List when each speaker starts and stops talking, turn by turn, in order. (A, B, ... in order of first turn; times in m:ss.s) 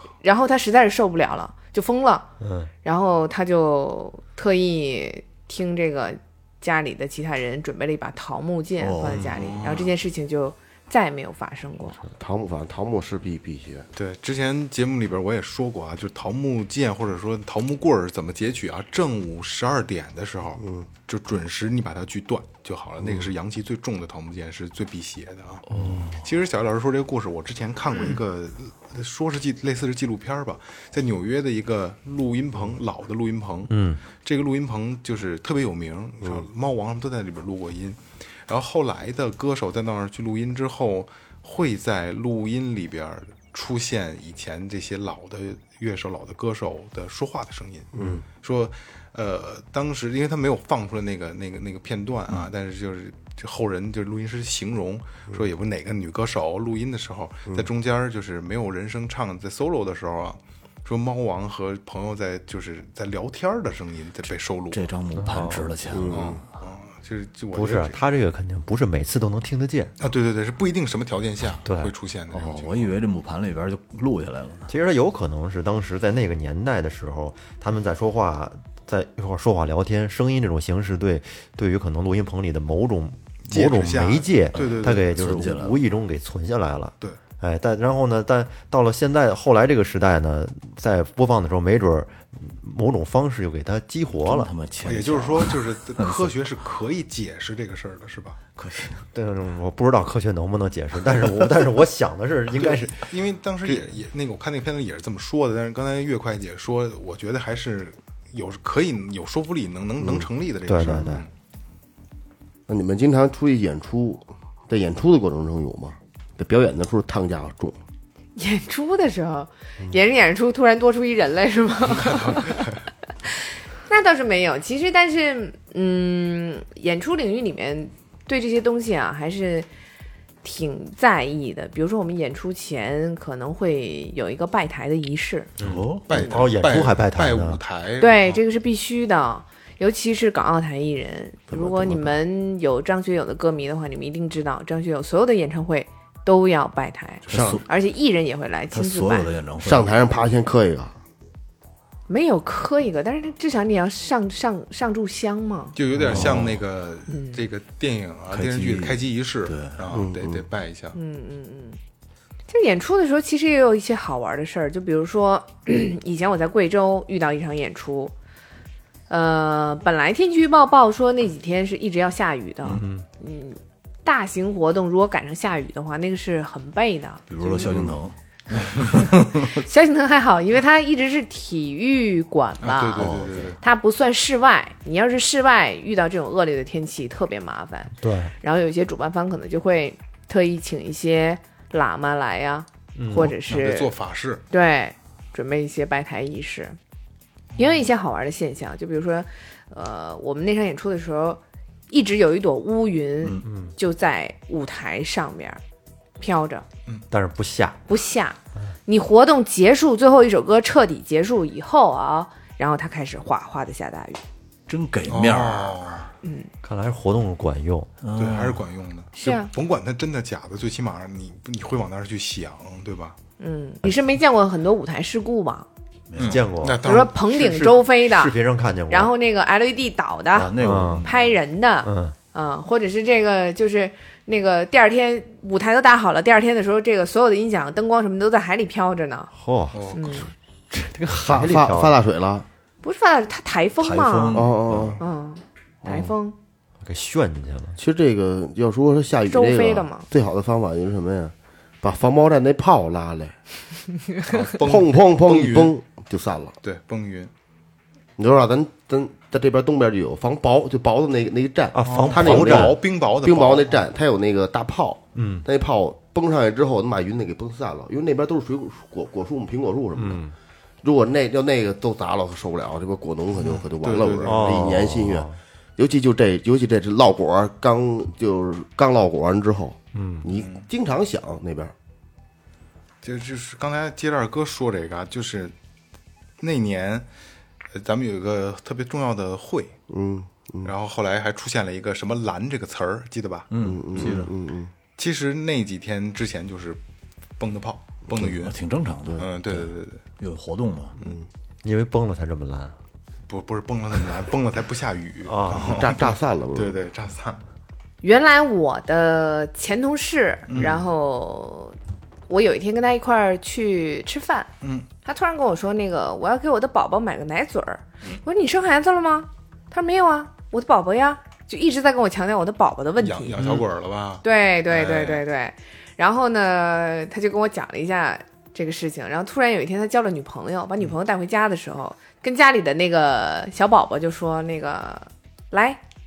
0:00.2-0:02.3 A
0:02.4-0:02.7 B
0:02.8-0:12.0 A
0:08.8-0:09.5 C
0:09.1-0:09.9 D
0:12.2-0:13.9 E
0:13.9-0:25.7 D
0:20.6-0:20.9 E
0:25.7-0:26.1 B
0:26.2-1:04.9 D
0:33.7-0:34.0 B
0:48.0-0:48.2 E
1:04.7-1:06.4 C
1:05.2-1:05.7 B
1:05.9-1:06.4 E
1:06.1-1:08.0 D
1:07.5-1:09.9 B
1:10.0-1:12.9 D
1:11.6-1:11.9 B
1:12.3-1:14.7 C
1:14.7-1:34.5 B
1:23.5-1:25.2 D
1:24.5-1:25.8 C
1:34.2-1:36.3 C
1:34.8-1:38.4 D
1:38.6-1:39.0 C
1:39.1-1:43.1 B
1:42.5-1:51.3 D
1:43.6-1:44.0 B
1:50.0-1:50.3 E
1:50.7-1:51.2 B
1:52.7-1:57.8 E
1:58.4-2:02.7 A
2:01.9-2:02.7 D
2:03.2-2:09.7 A
2:10.4-2:15.5 A
2:15.6-2:17.6 B
2:15.6-2:16.1 C
2:16.1-2:18.4 D
2:18.0-2:29.3 A
2:21.5-2:22.2 E
2:27.3-2:27.6 C
2:27.3-2:27.6 E
2:28.7-2:29.9 C
2:29.6-2:30.9 E
2:32.1-2:35.8 A
2:35.8-2:41.0 D
2:36.0-2:36.6 C
2:37.1-2:37.4 A
2:38.3-2:39.9 C
2:39.9-2:40.4 E
2:40.9-2:41.8 A
2:42.5-2:48.1 A
2:49.1-2:57.8 A
2:52.7-2:53.1 B
2:57.3-2:59.6 C
2:58.7-3:13.9 A
3:02.6-3:03.6 D
3:03.0-3:03.6 C
3:08.0-3:08.3 B
3:13.0-3:13.3 B
3:13.2-3:14.4 D
3:14.5-3:16.8 A
3:17.6-3:17.8 D
3:17.6-3:25.6 A
3:23.4-3:23.7 B
3:26.2-3:26.6 A
3:27.1-3:27.8 B
3:27.9-3:34.2 A
3:34.7-3:35.8 C
3:35.1-3:36.1 D
3:36.2-3:36.5 A
3:36.6-3:37.9 B
3:38.0-3:38.6 C
3:38.1-3:43.2 D
3:39.2-3:39.5 A
3:43.4-3:45.7 A
3:46.1-3:46.4 C
3:46.2-3:47.8 D
3:46.2-3:46.8 B
3:46.8-3:48.3 A
3:48.0-3:49.1 B
3:48.9-3:59.3 A
3:50.3-3:51.1 C
3:50.6-3:51.1 B
3:51.8-3:52.2 B
3:59.3-4:02.0 B
3:59.7-4:00.0 D
3:59.9-4:00.3 A
4:01.2-4:02.5 E
4:02.8-4:04.5 A
4:03.8-4:05.0 C
4:04.3-4:05.0 E
4:05.0-4:06.4 A
4:05.8-4:06.1 E
4:06.8-4:07.8 B
4:07.8-4:13.4 E
4:09.3-4:10.1 A
4:14.2-4:15.8 D
4:14.6-4:16.6 E
4:16.6-4:17.3 D
4:18.2-4:30.2 E
4:21.7-4:22.8 B
4:21.8-4:23.8 D
4:25.1-4:25.4 B
4:30.0-4:30.3 B
4:30.8-4:41.7 E
4:33.4-4:34.8 D
4:34.2-4:35.4 B
4:39.9-4:40.3 B
4:40.4-4:40.6 D
4:43.0-4:45.5 D
4:46.4-4:47.1 D
4:47.7-4:49.8 D
4:49.9-4:50.7 E
4:50.6-4:54.1 D
4:53.5-4:54.3 C
4:53.6-4:54.7 E
4:55.0-4:56.8 D
4:57.4-4:58.6 D
4:58.1-5:01.0 C
4:59.2-5:00.0 D
5:01.0-5:01.2 E
5:01.6-5:02.7 B
5:03.3-5:07.4 D
5:05.2-5:05.8 B
5:05.6-5:06.8 E
5:08.0-5:11.8 A
5:10.5-5:10.8 D
5:12.3-5:14.5 A
5:14.6-5:14.9 D
5:15.0-5:23.6 A
5:23.0-5:25.2 D
5:24.2-5:35.8 A